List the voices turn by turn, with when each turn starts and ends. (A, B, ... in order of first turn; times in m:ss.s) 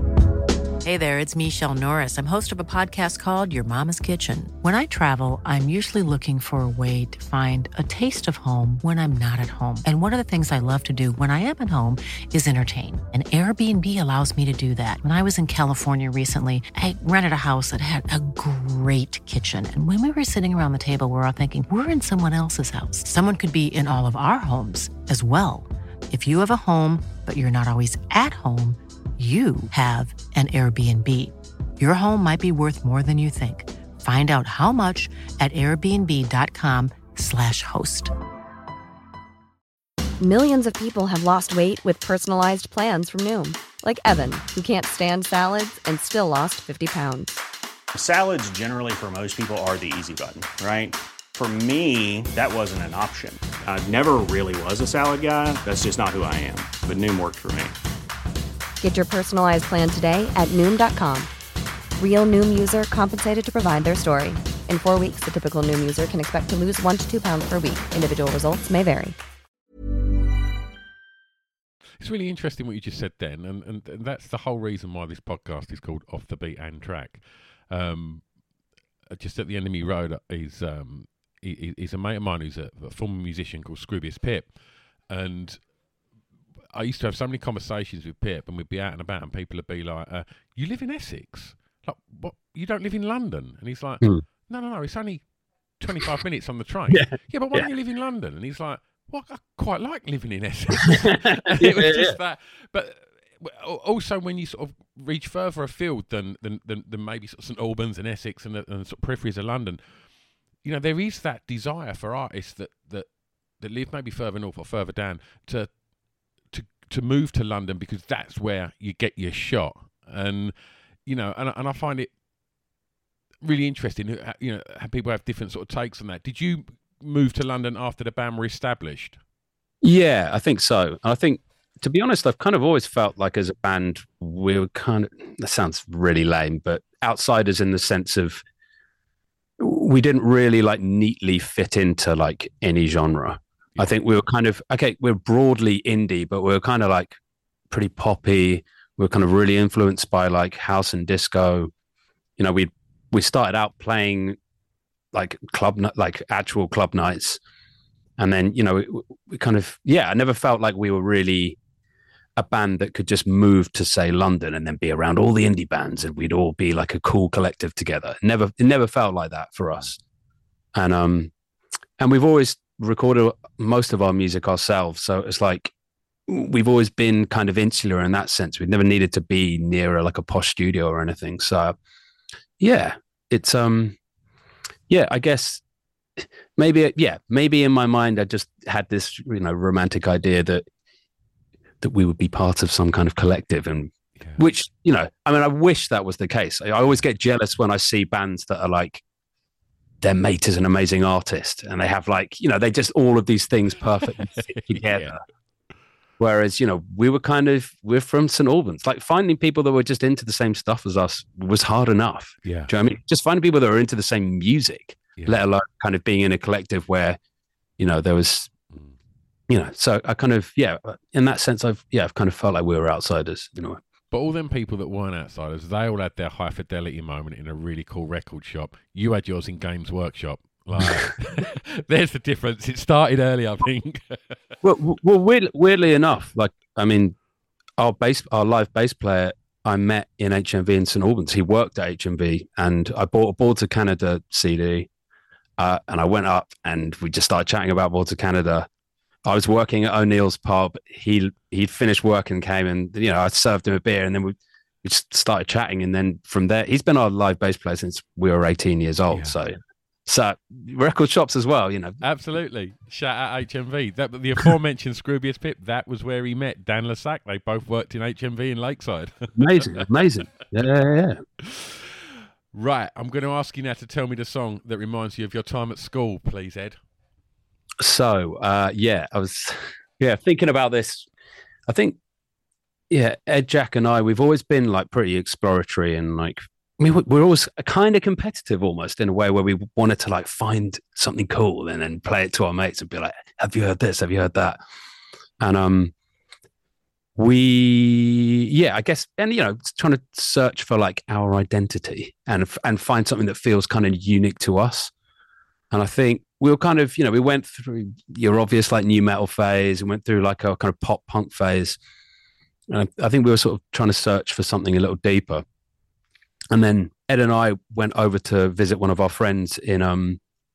0:00.8-0:38.1 A
0:40.2-0:47.3 B
0:47.9-0:57.8 C
0:58.8-1:01.3 B
1:02.0-1:09.2 B
1:12.0-1:18.2 D
1:19.1-1:24.5 D
1:25.1-1:25.6 D
1:26.7-1:35.2 D
1:35.8-1:49.8 D
1:36.9-1:37.7 E
1:40.8-1:42.2 E
1:50.6-1:53.1 D
1:53.6-1:55.7 D
1:56.5-2:00.5 D
2:01.0-2:02.1 D
2:03.4-2:09.2 D
2:09.8-2:18.4 E
2:19.6-2:27.2 E
2:27.7-2:31.7 E
2:32.4-2:34.4 E
2:35.1-2:37.4 E
2:38.2-2:41.6 E
2:42.4-2:50.0 E
2:50.7-2:51.3 E
2:52.0-2:55.7 E
2:56.3-3:01.8 E
3:02.6-3:04.0 E
3:04.9-3:05.6 E
3:06.2-3:10.6 E
3:11.8-3:19.0 E
3:20.0-3:25.2 E
3:24.7-3:25.1 D
3:26.2-3:37.2 E
3:32.4-3:32.7 D
3:37.8-3:38.5 E
3:39.5-3:43.8 E
3:44.1-3:54.4 D
3:54.6-3:57.2 E
3:57.8-4:04.9 E
4:05.6-4:08.7 E
4:09.2-4:19.6 E
4:19.1-4:19.4 D
4:20.1-4:22.0 E
4:22.0-4:30.2 D
4:29.3-4:31.2 E
4:31.4-4:36.8 D
4:37.8-4:41.1 E
4:41.7-4:42.0 E
4:42.9-4:54.6 E
4:55.4-4:55.9 E
4:57.2-5:04.9 E
5:05.7-5:11.8 E
5:12.7-5:15.4 E
5:16.5-5:20.2 E